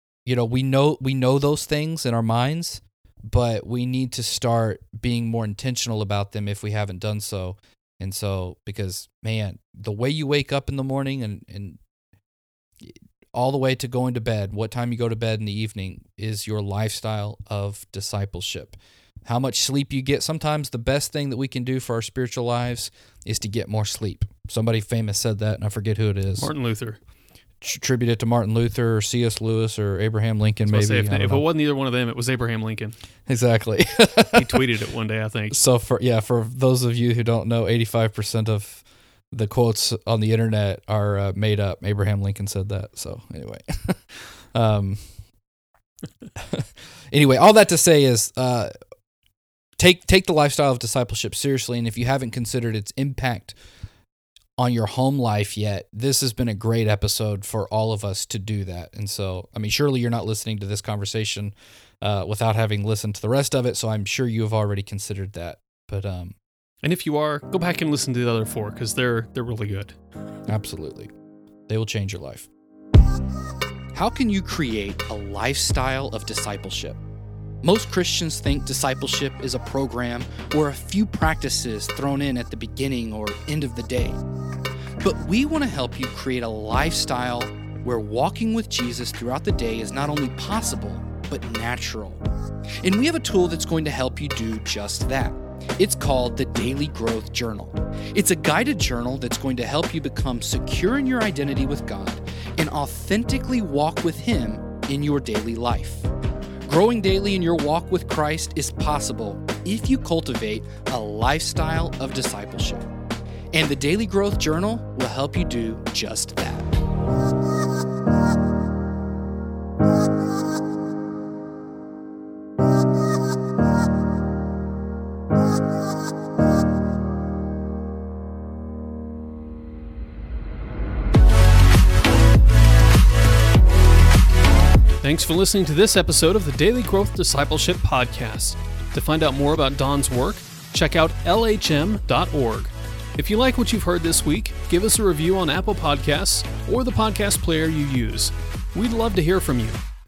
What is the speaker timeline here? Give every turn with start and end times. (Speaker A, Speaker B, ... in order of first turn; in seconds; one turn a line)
Speaker A: 0.2-11.8
Speaker A: 12.8-26.5
Speaker B: 26.4-27.0
Speaker A: 27.6-31.4
Speaker B: 30.7-33.0
Speaker A: 33.3-34.6
Speaker B: 34.3-35.6
Speaker A: 35.5-45.0
Speaker A: 46.4-48.7
Speaker A: 49.8-53.5
Speaker A: 54.6-66.3
Speaker B: 66.8-70.0
Speaker A: 70.5-71.1
Speaker A: 71.7-72.5
Speaker A: 73.9-77.0
Speaker A: 77.6-84.2
Speaker A: 85.0-92.2
Speaker A: 92.8-106.1
Speaker A: 106.7-112.8
Speaker A: 113.5-116.7
Speaker B: 135.0-149.8